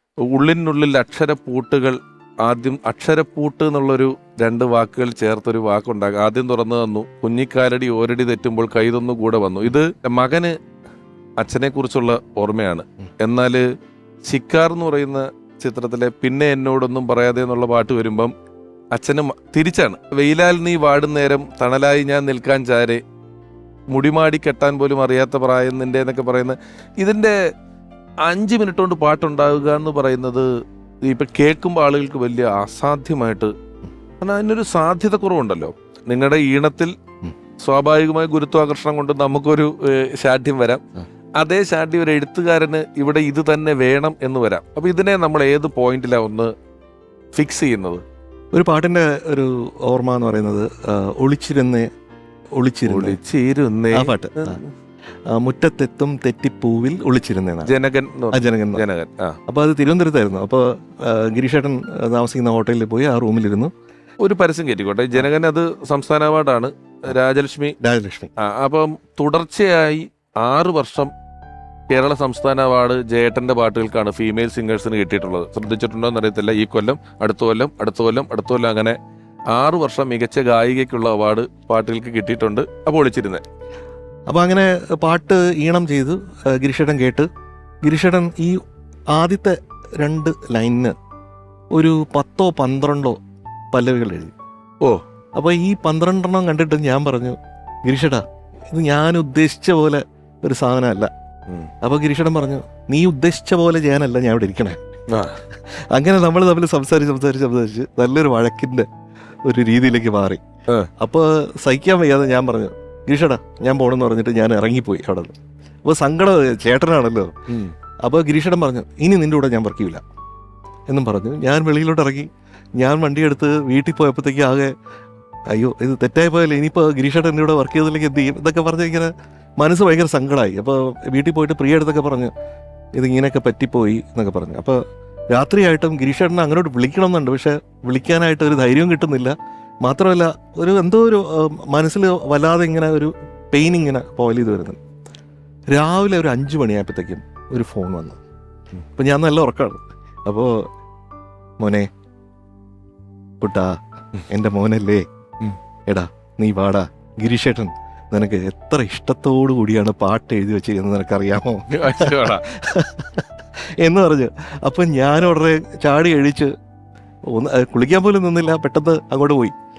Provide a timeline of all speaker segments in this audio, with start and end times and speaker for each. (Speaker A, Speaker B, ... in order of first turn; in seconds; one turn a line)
Speaker A: 0.3-10.6
Speaker A: 11.4-13.6
Speaker A: 14.3-18.3
Speaker A: 18.9-23.0
Speaker A: 23.9-27.4
Speaker A: 28.2-30.5
Speaker A: 31.0-33.5
Speaker A: 34.2-36.9
Speaker A: 37.6-40.8
Speaker A: 41.4-46.5
Speaker A: 47.4-48.0
Speaker B: 48.5-51.9
Speaker B: 52.6-53.2
Speaker A: 52.9-54.7
Speaker B: 53.9-54.6
Speaker B: 55.3-57.7
Speaker A: 57.7-59.4
Speaker B: 58.3-58.9
Speaker B: 59.5-63.7
Speaker A: 64.2-67.8
Speaker B: 67.8-68.3
Speaker A: 68.4-71.1
Speaker A: 71.9-79.0
Speaker A: 79.5-83.4
Speaker B: 84.3-87.3
Speaker B: 87.8-88.6
Speaker B: 89.1-91.0
Speaker B: 91.7-93.2
Speaker B: 93.7-94.3
Speaker B: 95.4-101.1
Speaker B: 101.8-104.8
Speaker A: 105.1-105.4
Speaker B: 105.7-108.9
Speaker B: 109.5-110.4
Speaker B: 111.0-117.3
Speaker A: 117.5-117.7
Speaker B: 118.0-120.0
Speaker B: 120.9-124.7
Speaker B: 125.5-132.3
Speaker B: 133.0-134.8
Speaker B: 135.3-144.8
Speaker B: 145.7-148.2
Speaker B: 149.0-150.7
Speaker B: 151.6-151.9
Speaker B: 153.4-153.8
Speaker B: 154.3-155.1
Speaker B: 155.9-163.3
Speaker A: 161.7-162.4
Speaker B: 163.8-166.5
Speaker B: 167.3-169.5